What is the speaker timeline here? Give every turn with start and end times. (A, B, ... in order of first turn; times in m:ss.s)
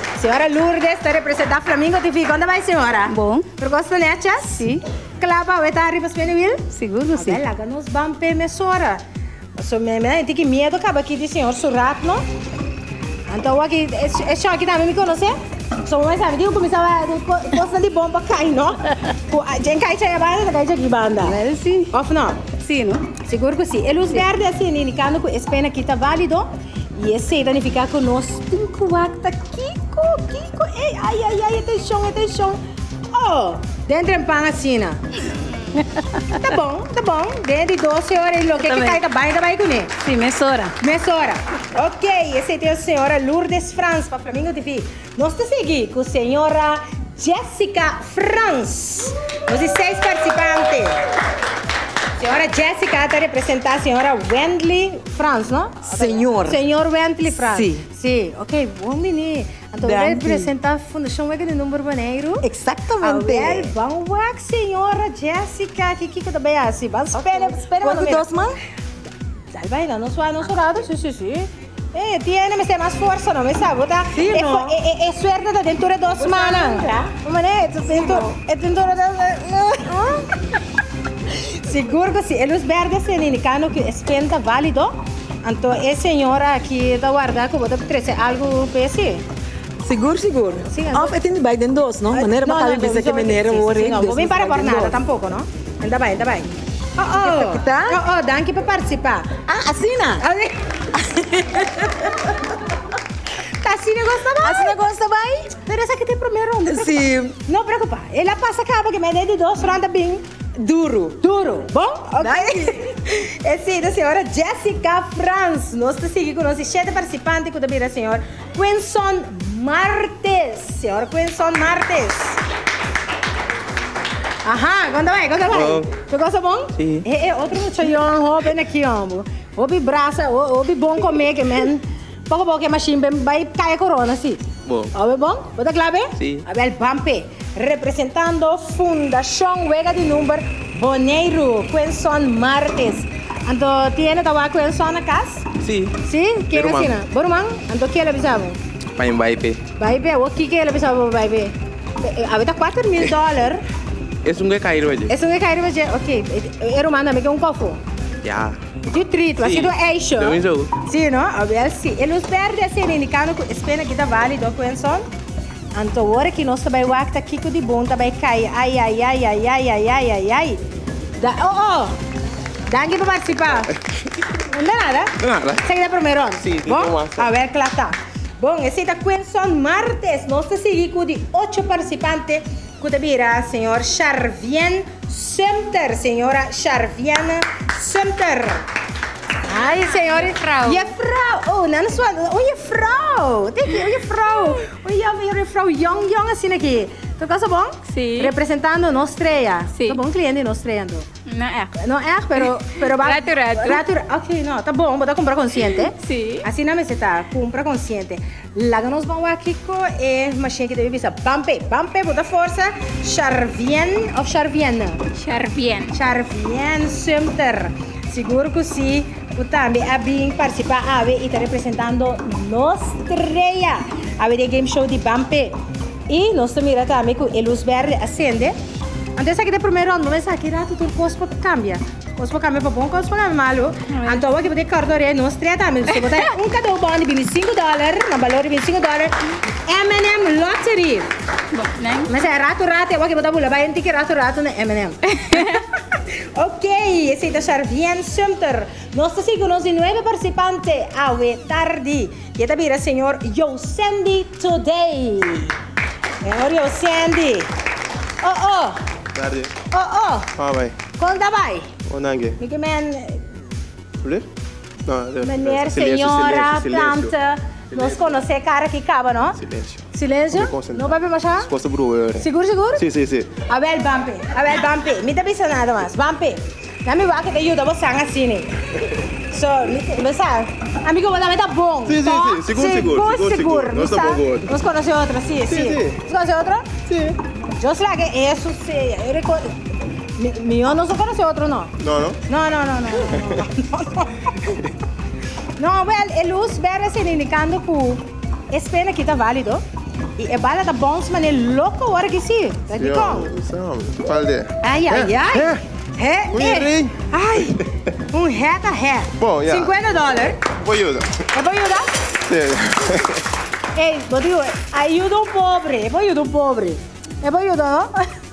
0:00.2-0:04.7 A
0:03.1-0:03.5 B
0:04.5-0:04.8 B
0:05.2-0:09.0 A
0:06.7-0:07.4 B
0:09.6-0:12.2 A
0:13.3-0:22.5 A
0:21.2-0:21.9 B
0:22.5-0:23.1 B
0:23.2-0:32.6 A
0:33.1-0:35.0 A
0:35.8-0:36.0 B
0:36.4-0:39.9 A
0:38.6-0:39.0 B
0:40.0-0:40.8 B
0:40.8-0:51.0 A
0:52.2-1:02.5 A
0:55.9-0:56.6 C
0:57.4-0:57.9 C
0:59.8-1:00.5 C
1:02.4-1:03.7 C
1:03.0-1:08.3 A
1:07.2-1:08.6 C
1:09.5-1:20.2 A
1:14.1-1:14.7 C
1:16.2-1:16.5 C
1:17.9-1:18.3 C
1:21.3-1:29.2 A
1:29.8-1:35.0 C
1:30.7-1:31.2 A
1:32.1-1:39.4 A
1:37.0-1:38.0 C
1:39.5-1:40.3 C
1:40.2-1:40.6 A
1:41.4-1:41.9 A
1:43.6-1:44.8 A
1:44.4-1:45.5 C
1:45.5-1:50.2 A
1:46.7-1:47.4 C
1:50.6-1:51.1 C
1:50.8-2:02.4 A
1:52.2-1:52.8 C
2:04.4-2:14.4 A
2:05.5-2:05.9 D
2:06.8-2:07.0 D
2:14.7-2:14.9 D
2:14.9-2:25.4 A
2:16.2-2:16.4 D
2:25.6-2:26.0 D
2:26.0-2:28.6 A
2:26.5-2:27.0 D
2:29.0-2:29.6 D
2:29.8-2:33.6 A
2:34.2-2:35.1 D
2:35.1-2:37.8 A
2:38.2-2:38.6 D
2:38.9-2:45.1 A
2:39.4-2:40.7 D
2:45.7-2:50.6 A
2:51.2-2:52.0 A
2:52.7-2:53.7 A
2:54.4-3:08.6 A
2:55.2-2:55.6 D
2:56.4-2:57.1 D
3:09.5-3:21.1 A
3:09.7-3:10.9 B
3:17.8-3:18.4 B
3:19.8-3:20.0 B
3:21.3-3:21.7 B
3:21.8-3:35.0 A
3:22.4-3:23.9 B
3:25.8-3:26.5 B
3:35.1-3:36.0 B
3:35.9-3:45.6 A
3:46.1-3:48.6 A
3:49.2-4:01.1 A
3:53.9-3:54.3 B
3:56.0-3:56.2 B
4:01.5-4:02.1 B
4:02.1-4:05.6 A
4:05.3-4:05.6 B
4:06.1-4:15.5 A
4:16.2-4:17.5 A
4:18.2-4:18.8 A
4:19.1-4:19.5 E
4:19.7-4:20.3 A
4:20.4-4:20.8 E
4:21.0-4:21.7 A
4:21.9-4:22.4 E
4:22.4-4:23.3 A
4:24.8-4:27.1 E
4:25.2-4:29.4 A
4:27.7-4:28.1 E
4:29.4-4:33.3 E
4:29.9-4:31.5 A
4:32.2-4:32.9 A
4:33.5-4:38.5 A
4:39.3-4:46.7 A
4:41.8-4:44.5 E
4:45.5-4:46.0 E
4:46.9-4:47.2 E
4:47.6-4:49.7 A
4:50.2-4:51.7 A
4:51.8-4:52.2 E
4:52.3-4:54.1 A
4:55.6-4:59.6 A
5:00.2-5:03.4 A
5:02.7-5:05.6 E
5:04.6-5:10.4 A
5:06.3-5:07.5 E
5:09.2-5:11.2 E
5:11.3-5:11.9 A
5:12.2-5:13.1 E
5:13.8-5:18.0 A